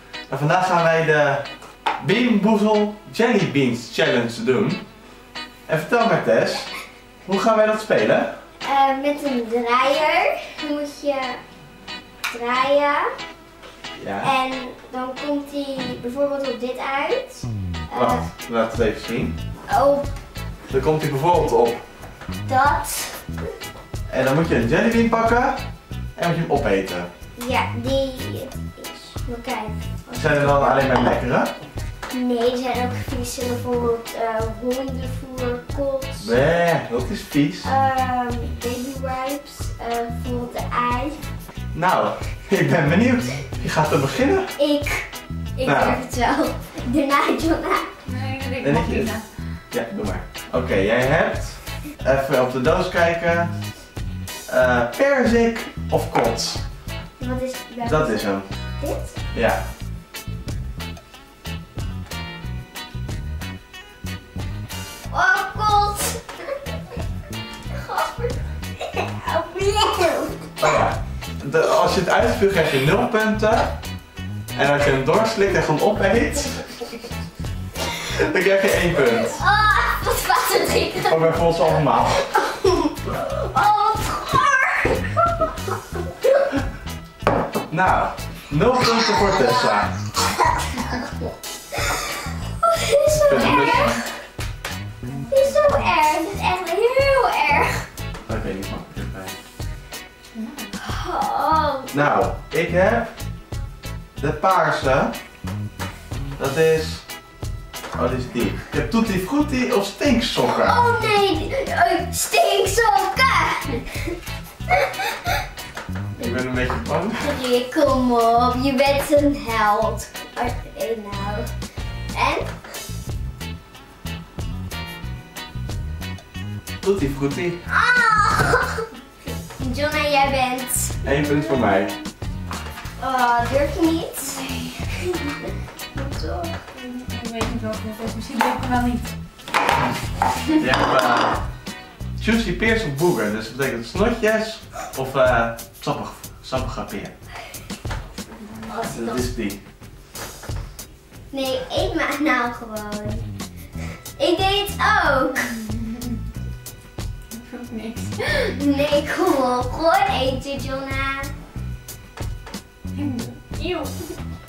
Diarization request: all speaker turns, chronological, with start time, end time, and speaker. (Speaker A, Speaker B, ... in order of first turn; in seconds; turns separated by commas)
Speaker A: 0.3-4.9, Speaker A: 5.7-6.7, Speaker A: 7.2-8.4, Speaker B: 8.6-11.4, Speaker B: 12.3-13.1, Speaker A: 14.0-14.3, Speaker B: 14.2-18.3, Speaker A: 17.9-19.4, Speaker B: 19.7-20.1, Speaker A: 20.7-21.8, Speaker B: 22.5-23.3, Speaker A: 24.1-25.6, Speaker A: 26.2-27.1, Speaker B: 27.4-31.1, Speaker A: 30.2-31.5, Speaker B: 32.1-36.4, Speaker A: 36.2-37.7, Speaker B: 37.6-41.2, Speaker A: 41.7-44.6, Speaker B: 44.6-47.9, Speaker A: 45.6-46.0, Speaker C: 48.1-49.4, Speaker A: 48.6-49.2, Speaker A: 49.7-53.7, Speaker A: 54.5-56.7, Speaker B: 57.2-59.2, Speaker A: 57.8-58.5, Speaker A: 59.3-59.7, Speaker B: 65.1-66.3, Speaker B: 67.7-70.8, Speaker A: 70.6-73.8, Speaker A: 74.5-76.8, Speaker A: 78.0-79.4, Speaker B: 79.2-85.5, Speaker A: 81.1-82.2, Speaker A: 87.7-89.9, Speaker B: 88.8-92.1, Speaker B: 92.6-94.1, Speaker A: 93.1-94.0, Speaker C: 93.4-94.0, Speaker C: 95.0-95.6, Speaker B: 95.3-97.9, Speaker A: 98.3-99.4, Speaker C: 100.3-100.8, Speaker B: 100.8-102.1, Speaker A: 101.9-103.1, Speaker A: 104.2-105.2, Speaker A: 106.4-107.1, Speaker A: 107.9-110.8, Speaker B: 110.4-114.2, Speaker A: 116.2-117.3, Speaker B: 117.2-121.5, Speaker B: 122.1-122.6, Speaker A: 126.8-127.6, Speaker B: 127.7-131.1, Speaker A: 131.0-131.9, Speaker B: 133.0-134.7, Speaker B: 135.9-136.7, Speaker C: 136.8-139.1, Speaker A: 140.6-141.4, Speaker A: 142.2-147.1, Speaker B: 148.7-149.3, Speaker A: 148.9-149.6, Speaker B: 151.3-153.2, Speaker B: 154.2-155.5, Speaker C: 155.4-156.2, Speaker C: 157.3-158.6, Speaker B: 158.6-161.3, Speaker C: 162.9-164.2